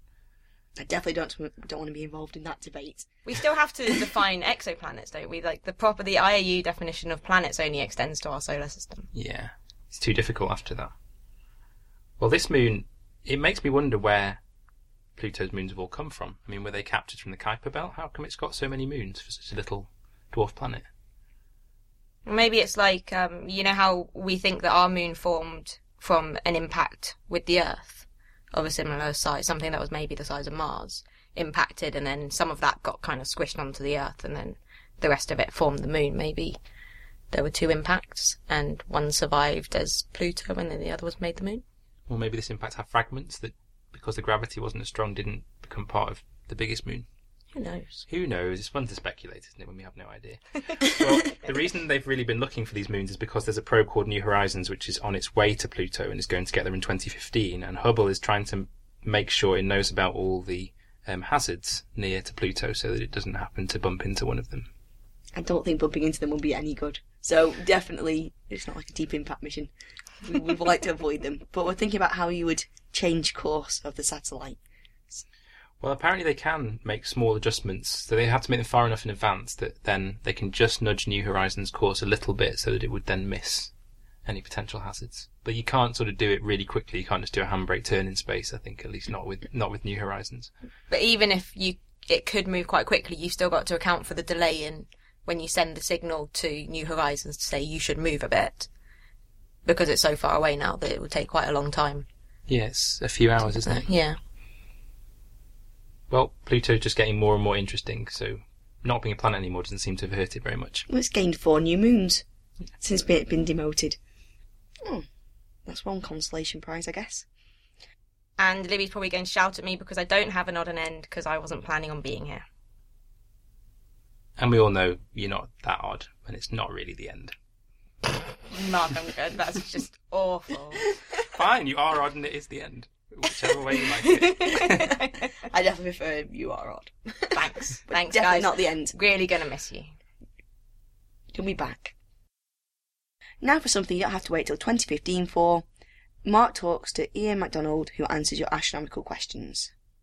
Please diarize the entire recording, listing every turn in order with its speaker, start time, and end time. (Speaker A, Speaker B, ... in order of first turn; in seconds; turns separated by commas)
Speaker A: 0.8-3.2, Speaker B: 3.2-9.1, Speaker C: 9.1-10.9, Speaker C: 12.2-14.4, Speaker C: 15.2-20.9, Speaker B: 22.2-36.6, Speaker B: 37.3-41.6, Speaker C: 42.1-47.0, Speaker B: 47.5-48.0, Speaker C: 48.1-64.7, Speaker A: 65.3-69.7, Speaker A: 70.2-74.6, Speaker C: 75.8-83.7, Speaker C: 84.2-90.5, Speaker B: 90.9-98.7, Speaker B: 99.6-102.0, Speaker C: 102.5-103.9, Speaker B: 103.5-104.2, Speaker C: 106.1-110.8, Speaker A: 110.9-112.2, Speaker A: 112.8-114.0, Speaker A: 115.7-117.2, Speaker B: 118.4-122.4, Speaker C: 124.4-127.3, Speaker B: 128.5-130.8, Speaker C: 131.3-134.8, Speaker B: 134.1-135.1, Speaker A: 135.5-138.9, Speaker B: 137.3-139.9, Speaker A: 141.3-141.9, Speaker A: 143.4-145.6, Speaker A: 146.2-149.7